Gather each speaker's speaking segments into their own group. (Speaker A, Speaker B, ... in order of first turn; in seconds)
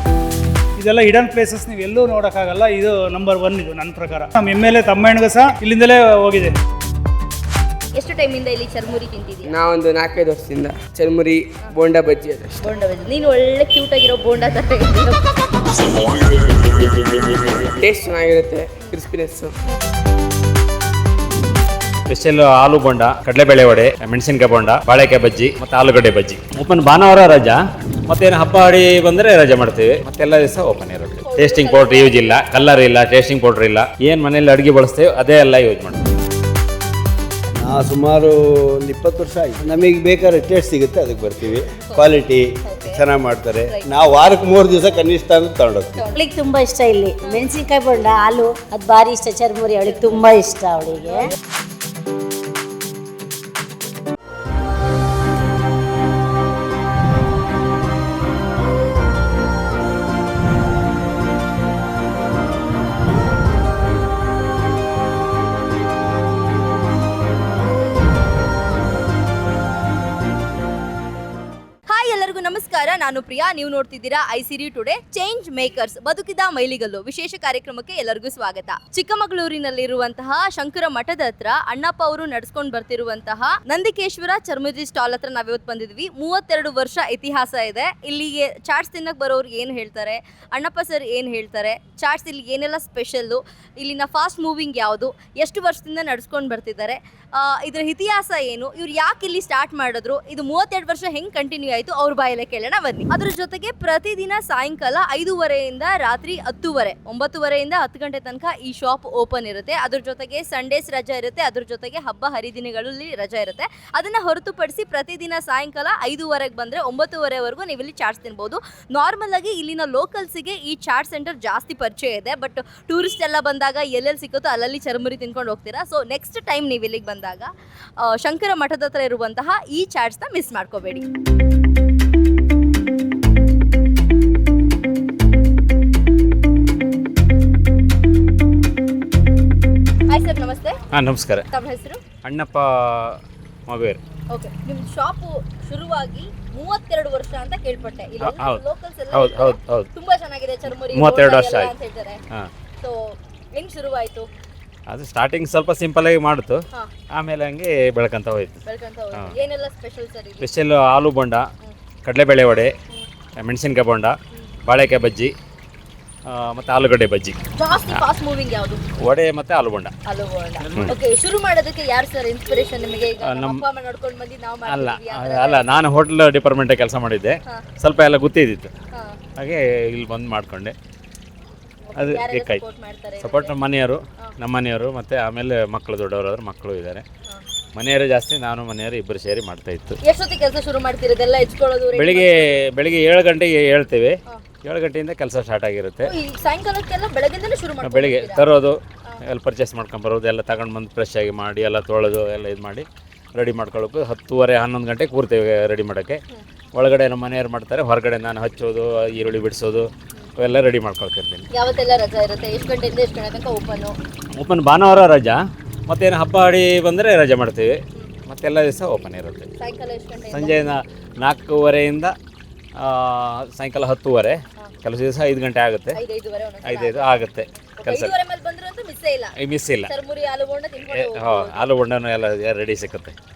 Speaker A: 0.8-6.5
Speaker B: 7.9-9.5, 12.6-16.1, 31.2-32.5, 41.9-42.1, 42.6-43.0, 43.7-44.0, 45.9-46.3, 71.9-127.5, 128.0-131.1, 140.1-140.8, 141.5-142.0, 144.3-152.2, 152.8-154.3, 158.7-160.5, 167.5-168.8, 170.0-175.8, 178.9-179.2, 181.9-183.6, 190.0-192.6, 196.0-198.5, 211.5-213.9, 219.6-220.7, 225.9-229.3, 229.8-231.7
Speaker C: 9.5-12.6, 16.2-19.5
Speaker D: 22.1-36.0, 140.9-141.5, 142.2-144.0, 148.2-149.9, 150.8-151.7, 154.9-156.6, 157.1-158.6, 160.4-161.5, 162.0-162.7, 163.4-165.3, 166.2-167.4, 169.0-169.9, 170.6-170.9, 173.2-173.6, 174.7-178.7, 179.4-180.7, 181.9-182.6, 183.2-187.0, 187.7-190.0, 191.9-196.1, 197.8-206.2, 206.7-211.4, 214.3-219.5, 220.3-222.1, 222.8-226.0, 226.6-228.1, 229.4-229.9, 230.9-233.1
Speaker E: 37.5-46.0
Speaker F: 46.1-51.3